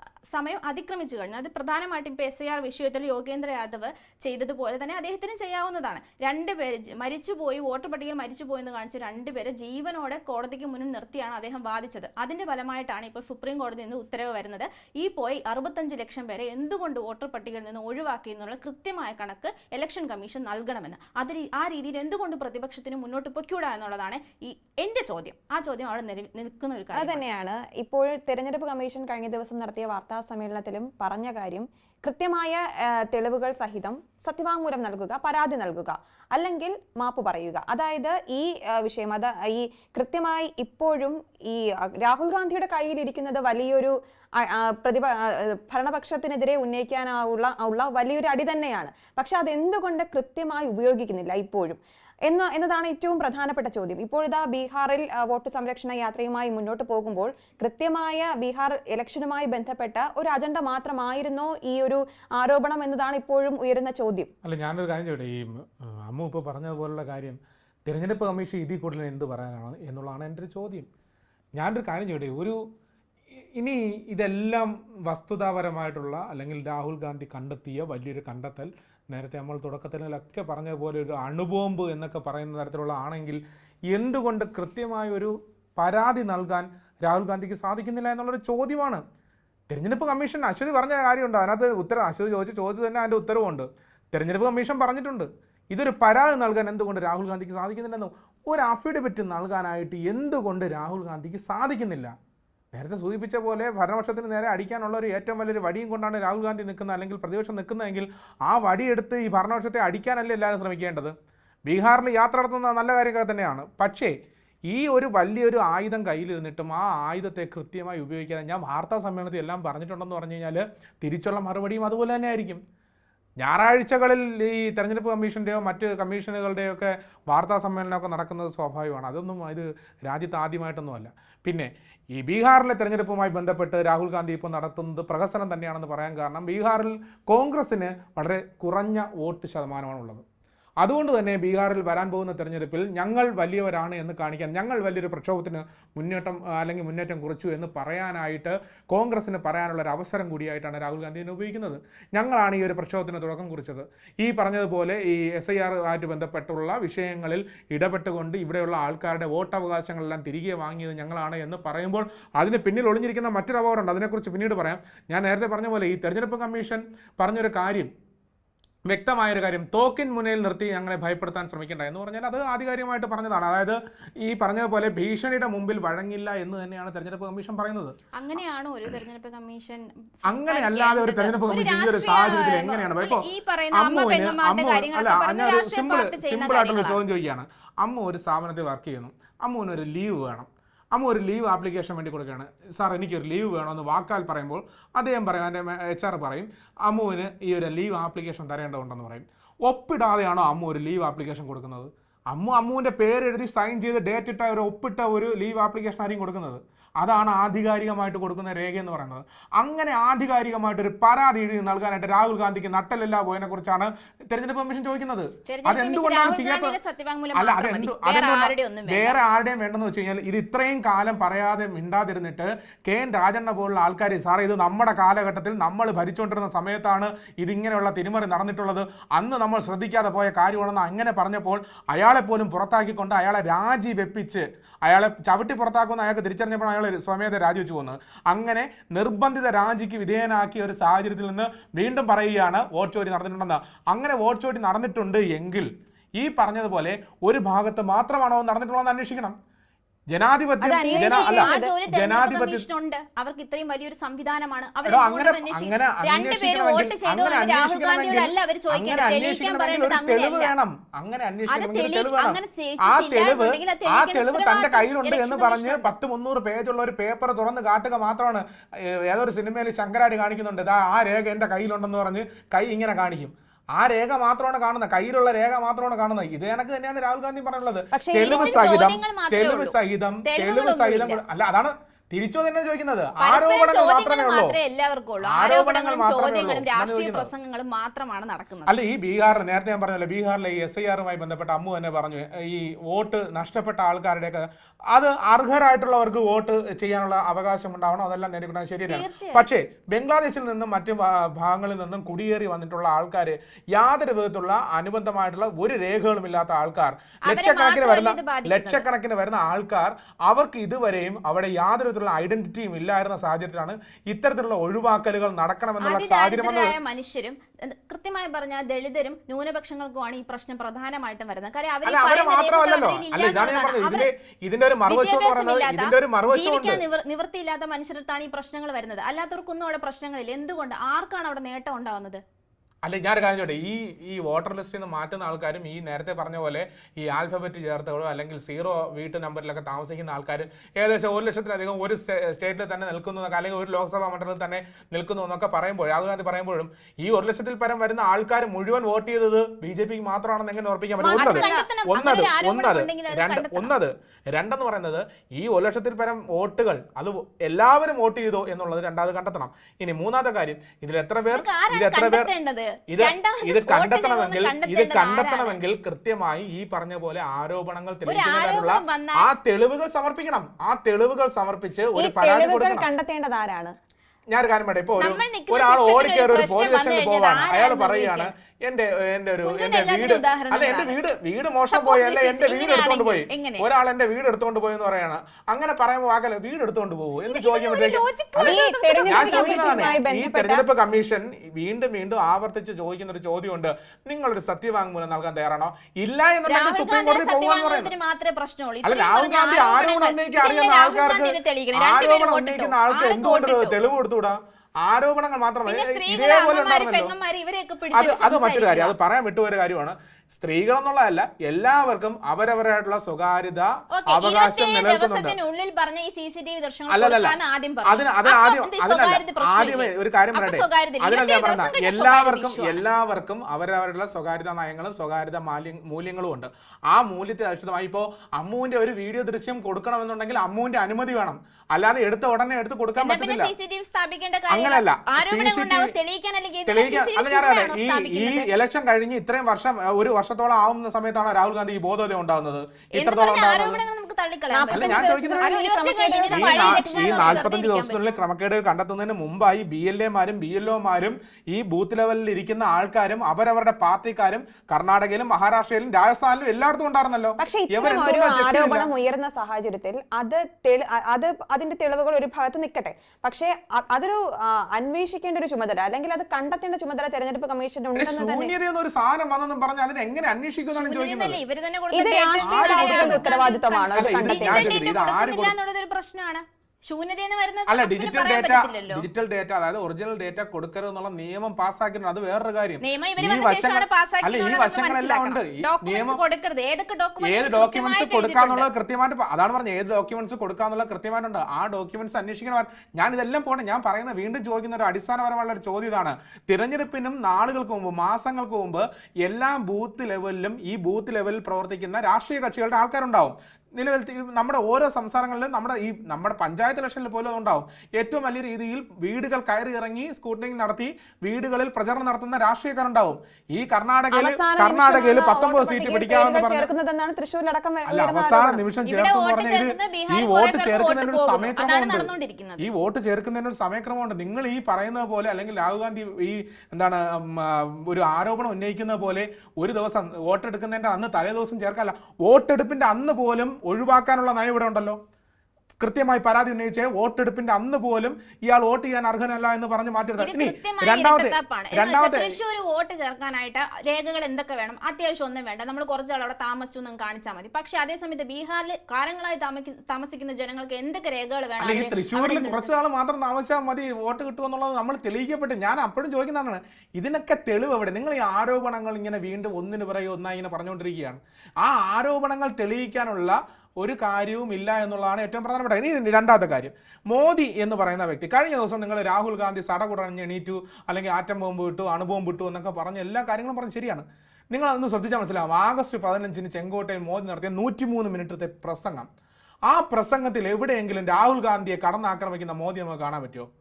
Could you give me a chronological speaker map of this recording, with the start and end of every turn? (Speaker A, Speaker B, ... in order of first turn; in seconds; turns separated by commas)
Speaker A: 0.3-27.2, Speaker B: 26.9-64.3, Speaker C: 64.4-70.9, Speaker C: 71.6-72.6, Speaker C: 73.5-89.0, Speaker C: 89.7-102.1, Speaker C: 102.7-111.1, Speaker C: 111.7-114.1, Speaker C: 114.7-122.6, Speaker C: 123.4-140.2, Speaker C: 140.8-167.9, Speaker C: 168.9-177.9, Speaker A: 178.1-187.0, Speaker C: 180.2-216.8, Speaker A: 215.5-219.2, Speaker C: 217.3-249.3, Speaker C: 250.1-252.7, Speaker B: 250.6-251.7, Speaker A: 250.8-260.5, Speaker C: 254.8-284.6, Speaker A: 261.5-265.9, Speaker B: 277.9-278.6, Speaker A: 278.2-281.2, Speaker A: 283.2-288.7, Speaker C: 285.2-287.3, Speaker C: 288.7-316.7, Speaker A: 298.9-299.5, Speaker A: 307.2-308.9, Speaker A: 315.8-324.1, Speaker C: 321.8-326.8, Speaker A: 324.9-332.2, Speaker C: 332.8-362.3, Speaker B: 351.0-351.7, Speaker A: 351.1-353.7, Speaker A: 361.3-365.6, Speaker C: 362.9-372.9, Speaker A: 368.1-369.3, Speaker B: 371.9-373.7, Speaker C: 374.3-397.9, Speaker A: 375.0-378.3, Speaker A: 379.4-381.0, Speaker A: 381.7-383.7, Speaker A: 387.3-390.0, Speaker B: 388.4-390.6, Speaker A: 396.4-403.8, Speaker C: 398.8-407.1, Speaker A: 405.7-408.9, Speaker C: 407.9-415.4, Speaker A: 413.9-422.8, Speaker C: 416.9-433.5, Speaker A: 432.9-438.5, Speaker C: 434.5-435.9, Speaker C: 436.7-443.8, Speaker A: 442.9-448.2, Speaker B: 444.5-447.5, Speaker C: 444.7-445.6, Speaker C: 446.1-458.9, Speaker B: 457.4-468.5, Speaker C: 468.0-471.4, Speaker A: 470.7-479.1, Speaker B: 471.9-474.8, Speaker C: 472.4-473.3, Speaker C: 473.9-475.6, Speaker C: 477.7-486.2, Speaker A: 482.8-488.7, Speaker C: 487.2-516.7, Speaker B: 514.1-518.6, Speaker C: 517.9-535.0, Speaker A: 518.9-522.6, Speaker C: 535.8-542.4, Speaker A: 540.2-552.7, Speaker C: 551.6-579.1, Speaker C: 579.7-583.5